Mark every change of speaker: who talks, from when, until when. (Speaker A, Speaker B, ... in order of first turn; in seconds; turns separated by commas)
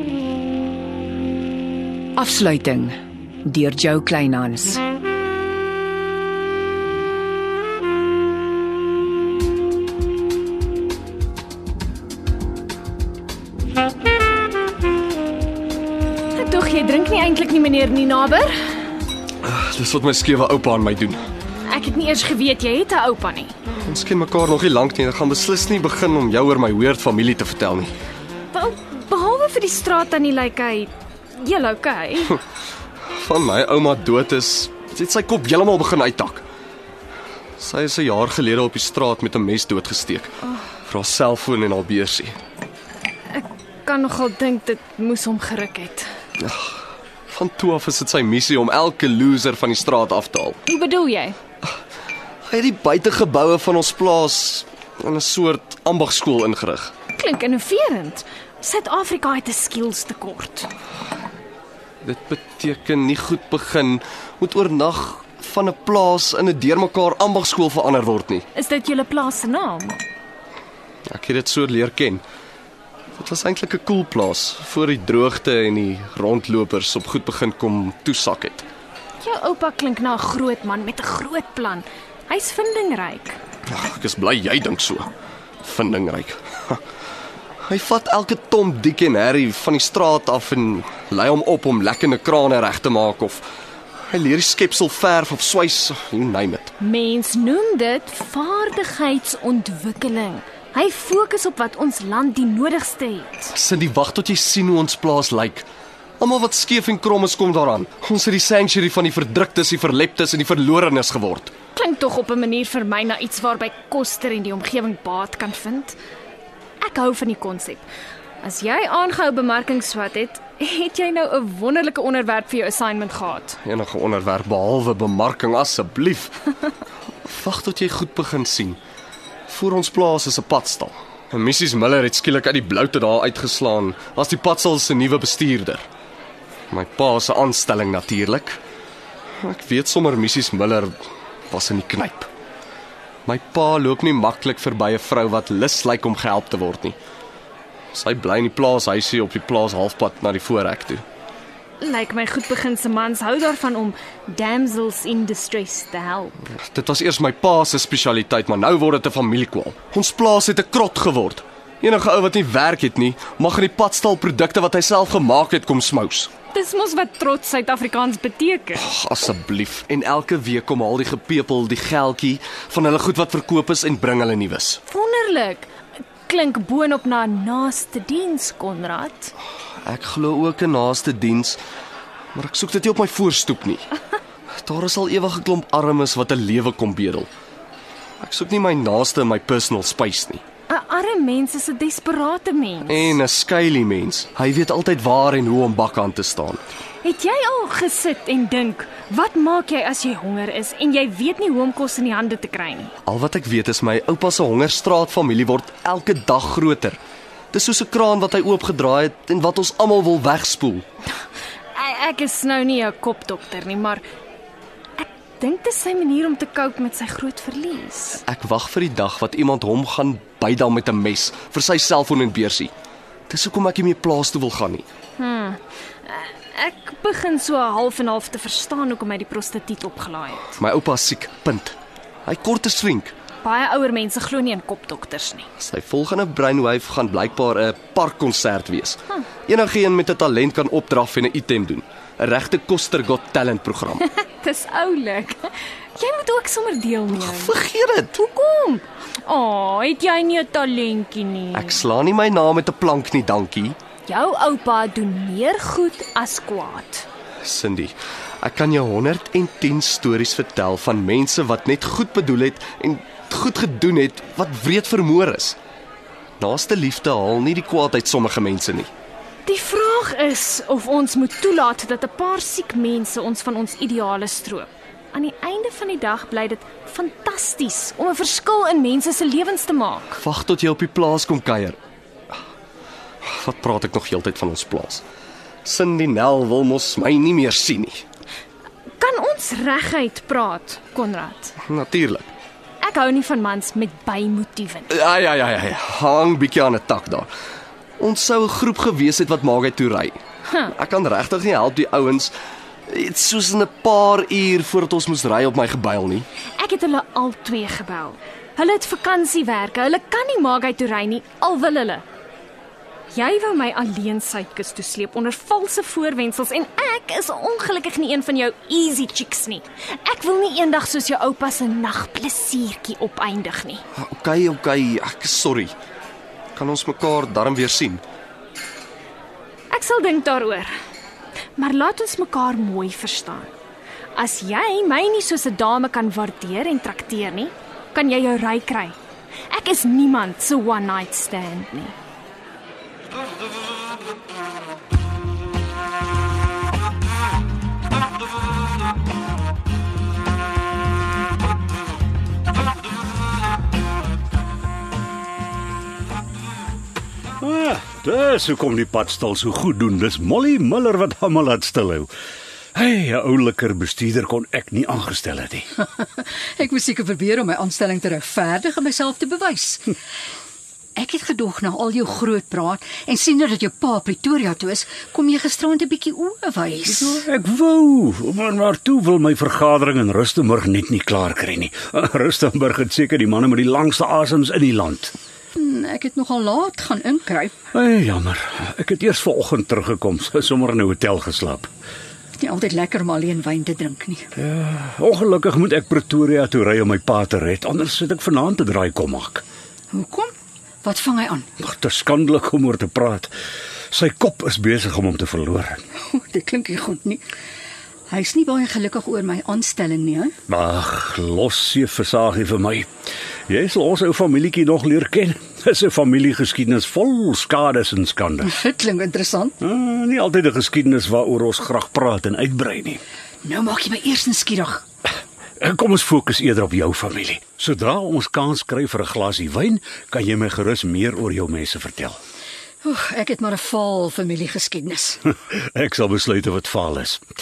Speaker A: 2.2-2.9, Speaker A: 3.5-4.8, Speaker B: 16.3-18.5, Speaker C: 19.4-21.2, Speaker B: 21.7-23.5, Speaker C: 23.9-27.9, Speaker B: 28.5-32.4, Speaker C: 33.1-36.5, Speaker C: 37.6-42.4, Speaker B: 43.3-46.1, Speaker C: 46.4-46.8, Speaker C: 47.3-50.6, Speaker B: 50.7-51.4, Speaker C: 52.5-56.9, Speaker B: 57.1-60.7, Speaker C: 62.0-68.4, Speaker B: 68.5-70.0, Speaker C: 71.1-72.2, Speaker C: 73.2-78.7, Speaker B: 79.2-83.4, Speaker C: 83.7-85.1, Speaker C: 85.6-86.8, Speaker C: 87.7-93.5, Speaker C: 94.1-96.7, Speaker B: 96.8-103.5, Speaker C: 103.5-105.7, Speaker C: 106.2-111.5, Speaker B: 111.8-116.0, Speaker B: 116.8-117.8, Speaker B: 118.4-123.6, Speaker C: 123.6-126.4, Speaker C: 127.2-128.8, Speaker C: 129.5-135.9, Speaker C: 136.7-138.6, Speaker C: 139.4-141.0, Speaker C: 141.5-142.3, Speaker C: 143.3-147.0, Speaker C: 147.9-151.0, Speaker B: 151.8-156.4, Speaker C: 156.6-166.3, Speaker B: 166.5-168.8, Speaker C: 168.8-174.8, Speaker B: 174.9-175.7, Speaker B: 176.3-179.3, Speaker C: 179.8-181.6, Speaker C: 182.3-183.9, Speaker C: 184.6-187.3, Speaker C: 188.2-190.4, Speaker B: 190.7-193.2, Speaker C: 192.9-196.6, Speaker B: 197.0-202.9, Speaker C: 203.1-207.0, Speaker C: 207.5-210.8, Speaker B: 211.7-214.0, Speaker B: 215.0-218.2, Speaker C: 218.2-222.7, Speaker C: 223.3-224.8, Speaker B: 225.2-230.6, Speaker C: 230.6-233.1, Speaker B: 233.4-235.5, Speaker C: 235.6-244.0, Speaker B: 244.1-247.6, Speaker C: 247.1-248.2, Speaker B: 248.1-251.8, Speaker C: 251.5-253.8, Speaker B: 254.1-257.1, Speaker C: 257.4-265.6, Speaker C: 266.4-268.9, Speaker B: 269.5-280.2, Speaker C: 280.2-281.8, Speaker C: 283.2-285.0, Speaker C: 285.6-288.0, Speaker B: 289.0-291.6, Speaker C: 291.6-292.3, Speaker B: 292.8-294.9, Speaker C: 294.9-297.3, Speaker C: 298.0-302.3, Speaker B: 300.5-300.7, Speaker C: 302.9-306.3, Speaker B: 306.6-312.0, Speaker B: 313.1-323.8, Speaker C: 324.0-325.7, Speaker C: 326.6-328.0, Speaker B: 329.7-330.7, Speaker B: 331.6-333.5, Speaker B: 334.2-339.0, Speaker B: 339.5-341.9, Speaker D: 357.4-362.1, Speaker D: 362.8-365.7, Speaker E: 366.0-369.9, Speaker E: 371.0-377.2, Speaker D: 376.9-385.1, Speaker E: 385.6-387.5, Speaker D: 387.8-391.7, Speaker E: 392.4-394.3, Speaker D: 394.4-399.4, Speaker E: 399.9-400.3, Speaker E: 400.8-401.5, Speaker D: 401.6-403.3, Speaker D: 403.9-405.8, Speaker E: 406.1-407.2, Speaker E: 408.1-410.4, Speaker D: 410.5-412.9, Speaker D: 413.5-418.5, Speaker E: 418.4-419.6, Speaker D: 419.6-423.0, Speaker E: 423.4-424.8, Speaker D: 425.6-432.2, Speaker E: 432.8-435.2, Speaker D: 435.5-437.2